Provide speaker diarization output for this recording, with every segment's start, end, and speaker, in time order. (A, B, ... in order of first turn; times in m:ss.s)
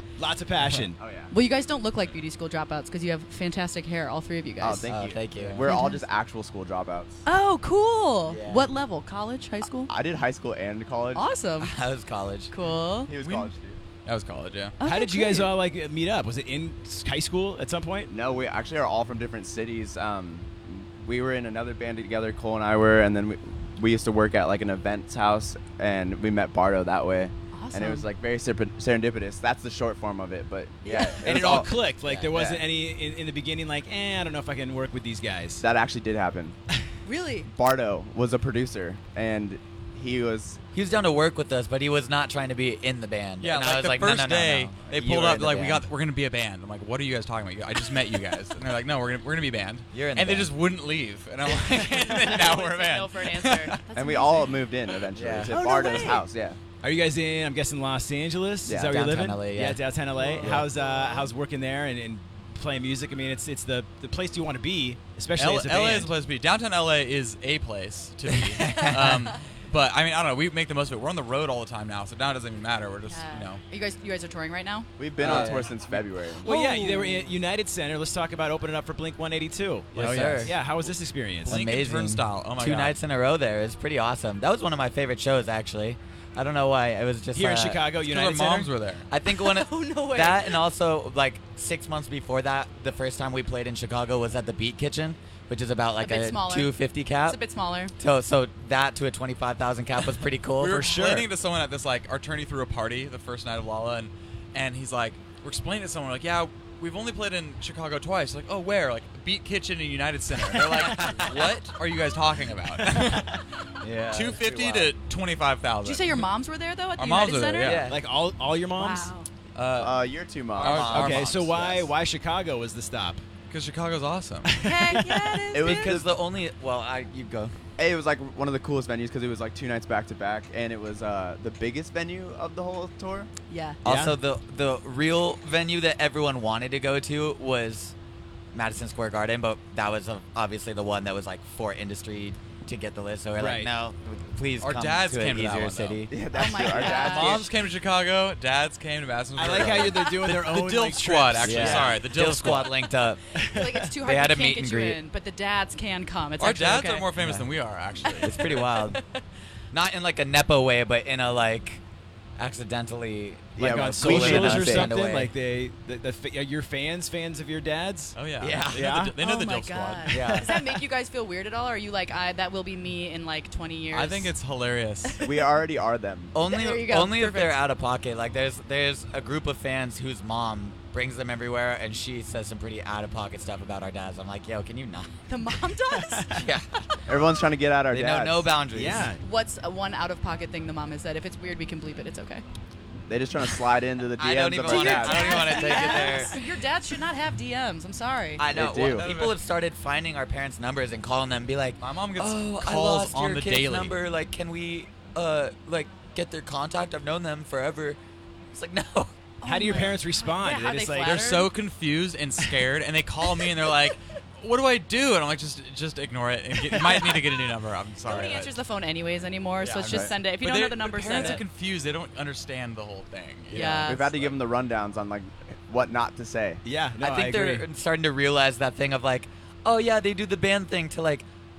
0:00.2-0:01.0 A
0:00.6-0:00.9 B
0:01.0-0:01.3 C
0:01.3-0:04.9 D
0:04.6-0:07.2 C
0:04.9-0:05.7 E
0:05.6-0:06.0 D
0:07.2-0:09.9 D
0:08.3-0:08.7 E
0:09.9-0:11.2 C
0:11.1-0:11.7 D
0:11.6-0:12.5 E
0:12.5-0:13.1 D
0:13.0-0:13.8 C
0:13.2-0:13.5 B
0:14.0-0:14.8 B
0:14.8-0:15.5 D
0:14.8-0:18.1 A
0:18.1-0:31.7 C
0:27.5-0:28.1 D
0:30.8-0:31.2 D
0:31.2-0:35.6 A
0:32.0-0:32.3 E
0:32.3-0:32.6 C
0:35.6-0:36.6 C
0:37.0-0:37.5 D
0:37.5-0:40.6 C
0:40.7-0:45.9 E
0:43.4-0:53.8 B
0:49.9-0:50.5 E
0:51.6-0:54.8 D
0:53.9-0:56.6 C
0:55.1-0:55.6 E
0:55.5-0:56.2 D
0:56.8-1:06.1 A
0:58.6-0:59.0 C
0:58.8-0:59.8 E
1:00.1-1:01.3 D
1:05.4-1:13.6 B
1:08.3-1:09.3 E
1:13.0-1:14.9 D
1:15.0-1:16.5 C
1:15.2-1:21.6 A
1:15.2-1:15.6 E
1:15.3-1:15.6 B
1:16.4-1:17.3 D
1:19.9-1:20.5 E
1:19.9-1:20.9 B
1:21.4-1:23.0 B
1:21.4-1:27.8 E
1:27.3-1:28.7 A
1:28.0-1:29.1 B
1:29.1-1:37.4 E
1:29.2-1:30.7 D
1:36.0-1:37.9 D
1:38.0-1:40.9 E
1:40.6-1:53.4 B
1:40.7-1:41.3 A
1:50.5-1:51.6 E
1:52.8-1:53.4 A
1:53.8-1:54.9 E
1:54.1-1:56.3 B
1:55.8-1:57.8 D
1:56.9-1:57.9 B
1:57.6-1:58.0 E
1:57.7-1:59.1 A
1:58.8-1:59.3 D
1:59.5-2:01.6 B
1:59.8-2:00.9 C
2:00.6-2:01.3 E
2:00.8-2:03.2 A
2:01.5-2:01.9 C
2:03.5-2:04.5 B
2:04.4-2:05.3 A
2:04.6-2:05.9 D
2:05.5-2:06.1 C
2:05.6-2:07.5 E
2:07.8-2:13.3 C
2:13.5-2:13.8 D
2:13.8-2:14.2 A
2:13.8-2:17.9 E
2:18.5-2:26.1 E
2:23.4-2:23.7 A
2:24.6-2:26.0 B
2:26.1-2:27.5 C
2:26.3-2:27.4 D
2:26.8-2:32.8 B
2:29.4-2:32.0 A
2:31.4-2:33.2 E
2:33.4-2:33.8 A
2:33.5-2:37.1 D
2:34.0-2:35.0 E
2:36.4-2:38.6 B
2:37.2-2:37.5 E
2:38.0-2:39.0 D
2:38.2-2:39.0 E
2:39.7-2:41.8 E
2:42.4-2:45.3 E
2:43.6-2:48.2 A
2:43.6-2:45.0 C
2:48.1-2:50.3 B
2:48.4-2:48.9 E
2:48.7-2:49.2 A
2:49.2-2:54.3 D
2:50.1-2:50.5 E
2:50.2-2:50.8 A
2:53.9-2:55.2 B
2:55.0-2:55.5 D
2:55.2-2:56.3 C
2:56.3-3:05.1 E
2:56.4-2:57.6 D
3:05.3-3:06.3 D
3:05.9-3:06.4 A
3:06.3-3:06.8 E
3:07.1-3:08.5 C
3:07.9-3:09.1 E
3:08.7-3:09.2 A
3:09.2-3:12.4 D
3:13.1-3:16.1 C
3:14.2-3:16.4 E
3:14.6-3:18.4 D
3:18.4-3:28.0 E
3:18.5-3:19.1 C
3:18.8-3:19.4 B
3:21.8-3:24.0 B
3:28.5-3:29.1 E
3:29.4-3:31.5 D
3:29.4-3:31.2 A
3:31.0-3:38.6 B
3:38.0-3:41.4 D
3:39.6-3:44.4 B
3:43.5-3:43.9 A
3:43.5-3:44.1 D
3:43.8-3:46.6 C
3:46.6-3:47.6 A
3:47.0-3:51.2 E